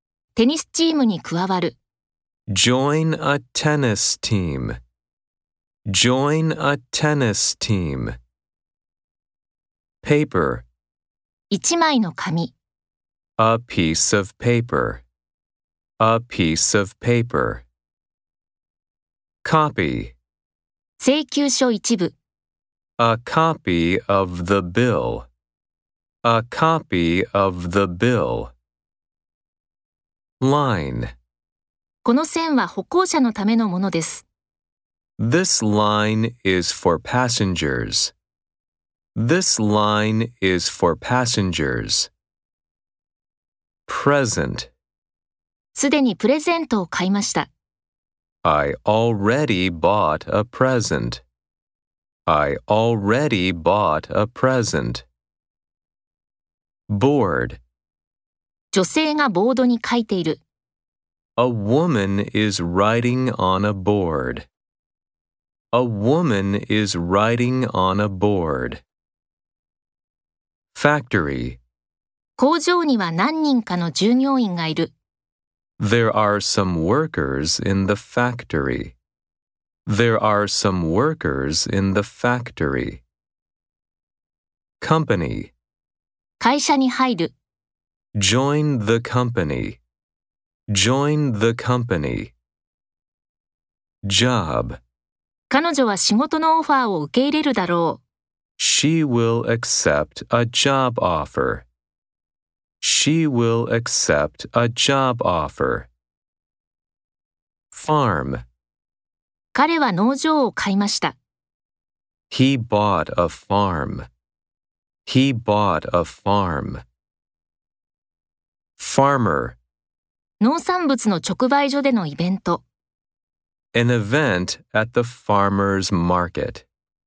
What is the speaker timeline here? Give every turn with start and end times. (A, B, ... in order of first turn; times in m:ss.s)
0:00.3-0:01.8 A
0:02.5-0:04.8 B
0:05.9-0:08.1 B
0:10.0-0:10.7 B
0:11.5-0:12.5 A
0:13.4-0:15.0 B
0:16.0-0:17.6 B
0:19.4-0:20.1 B
0:21.0-0:22.1 A
0:23.0-0:25.3 B
0:26.2-0:28.5 B
0:30.4-0:31.1 B
0:32.0-0:34.2 A
0:35.2-0:38.1 B
0:39.2-0:42.1 B
0:43.9-0:44.7 B
0:45.7-0:47.5 A
0:48.4-0:51.2 B
0:52.3-0:55.0 B
0:56.9-0:57.6 B
0:58.7-1:00.4 A
1:01.4-1:04.4 B
1:05.7-1:08.8 B
1:10.7-1:11.6 B
1:12.4-1:14.9 A
1:15.8-1:19.0 B
1:19.8-1:23.0 B
1:24.8-1:25.5 B
1:26.4-1:27.3 A
1:28.1-1:29.8 B
1:30.7-1:32.3 B
1:34.0-1:34.8 B
1:35.5-1:38.0 A
1:38.6-1:41.6 B
1:42.8-1:45.9 B
1:47.7-1:48.4 B
1:49.5-1:51.2 A
1:52.3-1:54.1 B
1:55.0-1:56.8 B
1:58.8-1:59.6 B
2:00.4-2:02.6 A
2:03.7-2:06.6 B